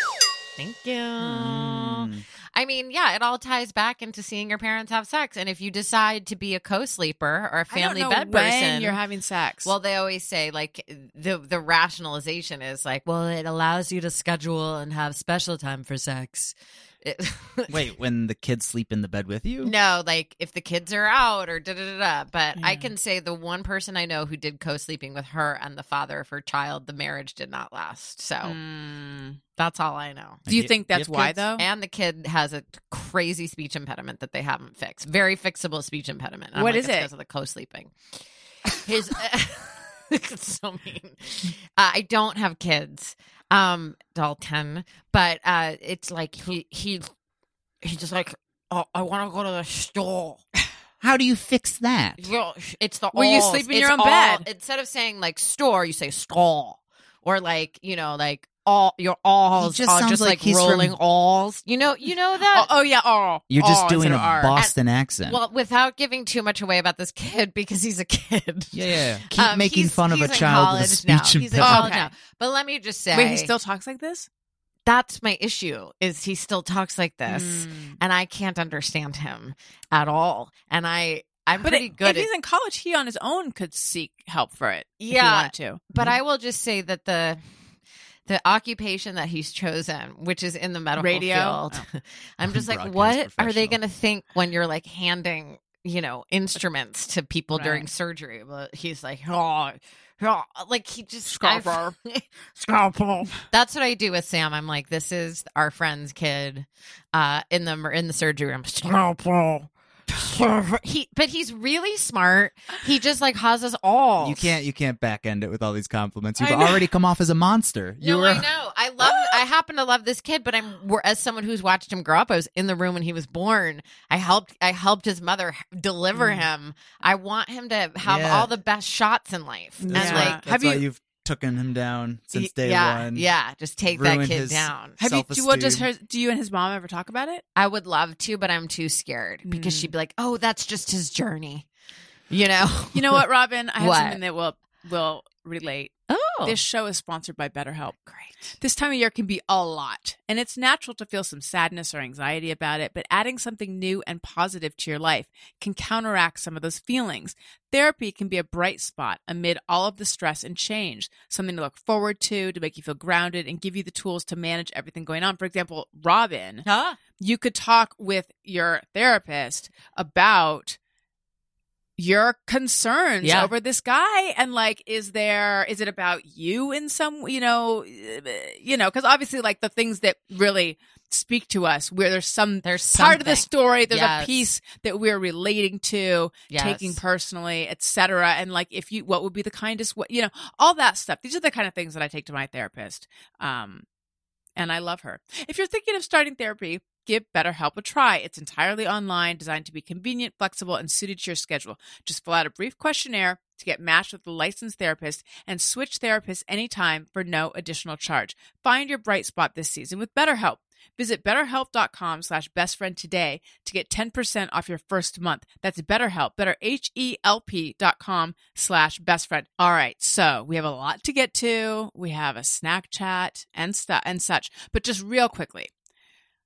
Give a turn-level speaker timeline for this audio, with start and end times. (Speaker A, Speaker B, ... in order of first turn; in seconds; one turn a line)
Speaker A: 0.6-9.0
Speaker B: 1.2-2.2
Speaker C: 7.7-9.7
Speaker A: 9.7-17.8
Speaker B: 17.7-19.7
Speaker A: 19.6-28.6
Speaker C: 22.6-22.9
Speaker C: 28.4-29.4
Speaker A: 29.6-30.4
Speaker B: 30.5-31.4
Speaker C: 30.5-31.6
Speaker A: 31.5-47.1
Speaker C: 36.5-37.1
Speaker A: 47.8-50.4
Speaker B: 51.0-52.3
Speaker A: 52.2-62.7
Speaker C: 53.1-54.5
Speaker B: 59.6-61.0
Speaker C: 62.5-64.6
Speaker B: 63.5-65.4
Speaker A: 64.6-73.5
Speaker B: 68.7-71.9
Speaker C: 71.6-72.1
Speaker C: 73.1-74.3
Speaker A: 74.9-82.3
Speaker C: 77.3-78.0
Speaker C: 81.6-85.8
Speaker A: 85.0-87.4
Speaker A: 88.3-114.5
Speaker C: 91.0-91.9
Speaker B: 92.4-93.8
Speaker C: 97.5-97.9
Speaker C: 101.3-102.0
Speaker B: 114.2-118.5
Speaker C: 116.4-116.8
Speaker A: 118.0-130.4
Speaker C: 119.1-119.4
Speaker C: 126.2-126.5
Speaker B: 128.0-128.5
Speaker C: 129.9-130.8
Speaker B: 129.9-133.3
Speaker A: 132.3-135.0
Speaker B: 133.9-135.9
Speaker C: 135.0-137.4
Speaker A: 137.6-141.7
Speaker C: 139.4-139.9
Speaker A: 142.3-143.2
Speaker C: 142.9-148.1
Speaker A: 143.8-144.2
Speaker A: 146.1-146.6
Speaker A: 148.1-148.4
Speaker C: 148.6-166.7
Speaker A: 166.7-167.0
Speaker C: 167.2-170.8
Speaker C: 172.0-193.8
Speaker A: 173.2-173.5
Speaker A: 182.6-184.5
Speaker A: 186.5-187.0
Speaker C: 194.6-225.7